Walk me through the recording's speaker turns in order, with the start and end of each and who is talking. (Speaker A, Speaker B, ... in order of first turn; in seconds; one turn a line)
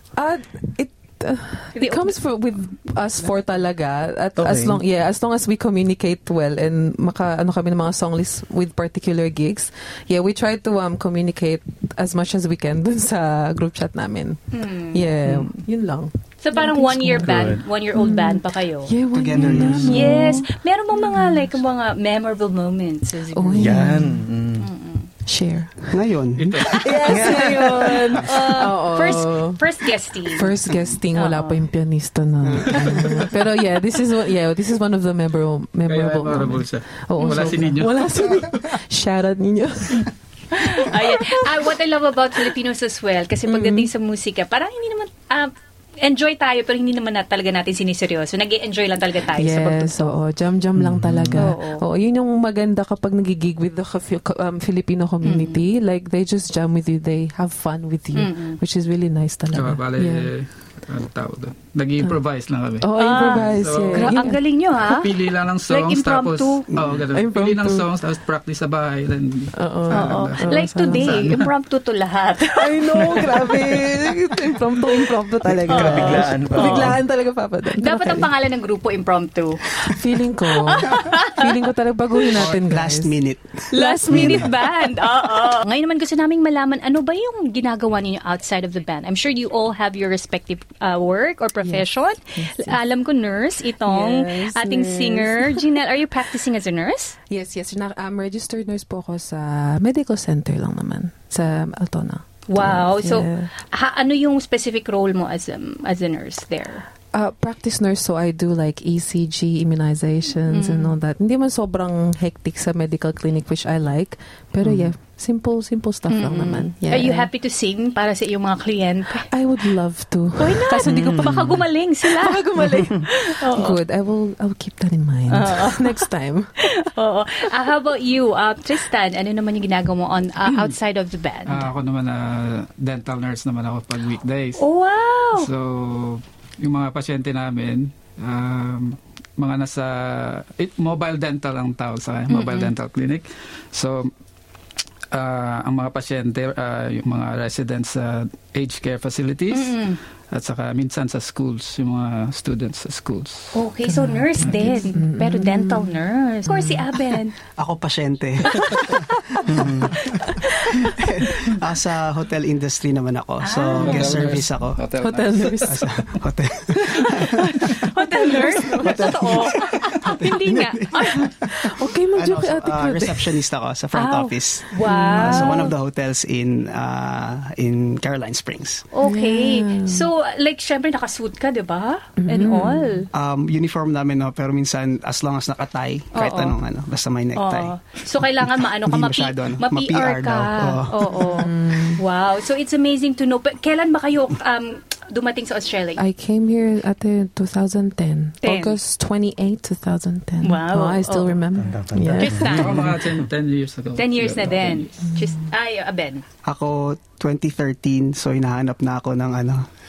Speaker A: 0.1-21.6
Speaker B: 1.7-2.1
Speaker C: 4.4-4.8
Speaker B: 14.5-15.3
Speaker B: 16.4-18.9
Speaker C: 17.2-17.6
Speaker D: 19.1-20.1
Speaker C: 19.4-19.9
Speaker B: 19.8-23.9
Speaker A: 23.3-24.3
Speaker C: 23.6-24.7
Speaker B: 24.6-25.1
Speaker A: 25.2-26.1
Speaker D: 25.9-27.9
Speaker E: 26.4-27.0
Speaker A: 26.6-29.6
Speaker C: 27.1-28.1
Speaker B: 27.2-30.5
Speaker A: 30.2-41.6
Speaker B: 31.1-31.6
Speaker D: 32.4-33.3
Speaker E: 35.9-38.4
Speaker B: 40.5-50.1
Speaker A: 43.4-43.9
Speaker A: 49.3-60.3
Speaker C: 50.8-51.3
Speaker B: 51.3-51.8
Speaker B: 55.2-55.6
Speaker B: 58.1-58.6
Speaker E: 59.5-71.5
Speaker A: 62.8-64.4
Speaker B: 63.0-65.1
Speaker B: 65.7-66.7
Speaker D: 66.7-67.0
Speaker A: 67.1-67.9
Speaker A: 69.5-71.3
Speaker B: 69.9-73.5
Speaker A: 72.5-78.3
Speaker C: 75.6-77.0
Speaker B: 75.7-76.9
Speaker B: 77.8-79.7
Speaker A: 79.8-83.1
Speaker B: 80.6-81.5
Speaker D: 82.3-84.5
Speaker B: 83.7-97.2
Speaker A: 83.7-84.6
Speaker A: 91.6-92.8
Speaker A: 93.8-95.6
Speaker A: 97.3-103.5
Speaker B: 102.5-106.8
Speaker A: 107.1-117.3
Speaker B: 110.5-110.9
Speaker C: 114.6-114.9
Speaker B: 116.1-119.3
Speaker A: 119.3-126.7
Speaker B: 120.4-123.8
Speaker C: 120.8-121.6
Speaker B: 125.3-126.0
Speaker B: 126.6-131.7
Speaker E: 131.5-134.6
Speaker B: 134.6-135.5
Speaker E: 135.3-144.1
Speaker B: 142.3-142.7
Speaker E: 145.1-149.8
Speaker B: 149.5-150.0
Speaker E: 150.3-153.6
Speaker B: 153.5-157.4
Speaker A: 153.9-156.9
Speaker D: 157.5-164.8
Speaker C: 159.5-159.9
Speaker B: 160.2-161.0
Speaker B: 163.4-164.3
Speaker E: 163.8-165.8
Speaker A: 165.0-166.0
Speaker D: 165.6-178.9
Speaker B: 166.8-171.3
Speaker A: 168.2-168.7
Speaker A: 171.5-173.4
Speaker B: 173.9-175.7
Speaker A: 174.8-175.7
Speaker B: 178.9-183.1
Speaker A: 179.0-180.1
Speaker A: 182.2-183.1
Speaker D: 183.1-187.7
Speaker B: 186.1-186.6
Speaker B: 187.3-196.0
Speaker D: 188.6-191.1
Speaker A: 191.1-192.0
Speaker A: 196.0-202.8
Speaker B: 198.4-198.8
Speaker B: 200.4-201.4
Speaker C: 201.6-203.2
Speaker B: 202.2-202.9
Speaker E: 202.3-204.9
Speaker B: 204.0-206.2
Speaker A: 205.1-205.4
Speaker D: 206.4-209.7